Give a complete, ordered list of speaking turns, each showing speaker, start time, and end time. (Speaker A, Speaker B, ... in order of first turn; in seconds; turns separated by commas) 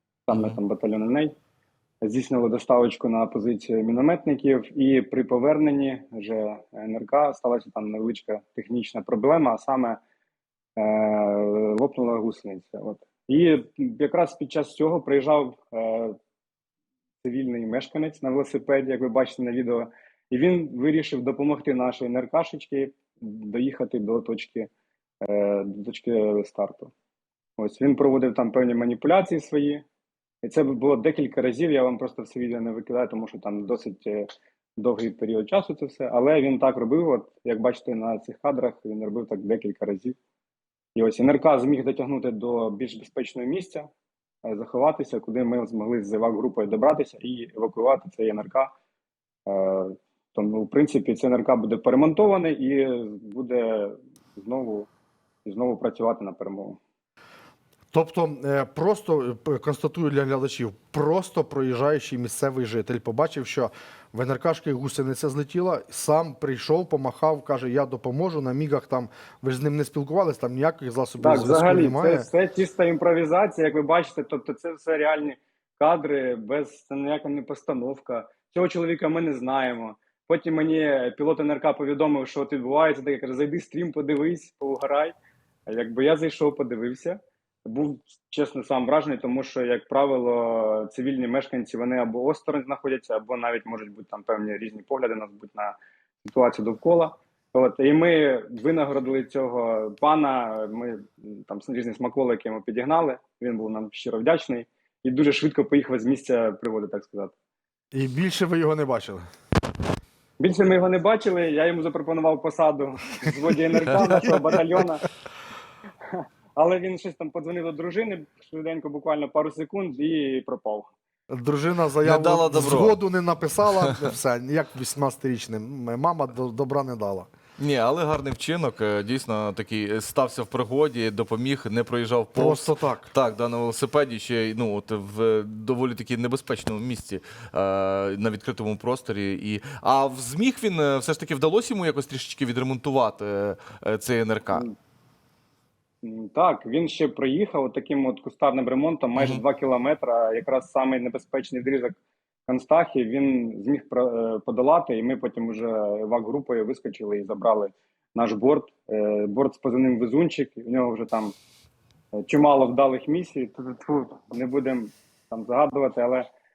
Speaker A: 0.3-1.3, Speaker B: 0.3-0.6, Speaker A: 2.0-10.0, Speaker A: 10.8-16.2, Speaker A: 17.2-24.7, Speaker A: 25.2-26.9, Speaker A: 27.6-29.8, Speaker A: 30.4-40.2, Speaker A: 41.0-43.9, Speaker A: 44.4-48.7, Speaker A: 49.5-54.9, Speaker A: 55.5-56.8, Speaker C: 57.9-72.3, Speaker A: 71.2-85.1, Speaker A: 85.7-107.3, Speaker C: 107.9-109.2, Speaker A: 110.4-115.0, Speaker A: 116.0-120.9, Speaker C: 121.3-127.3, Speaker B: 122.0-123.0, Speaker B: 123.8-124.1, Speaker B: 127.6-144.7, Speaker C: 132.3-133.1, Speaker A: 146.0-161.4, Speaker B: 149.2-149.4, Speaker A: 162.2-166.3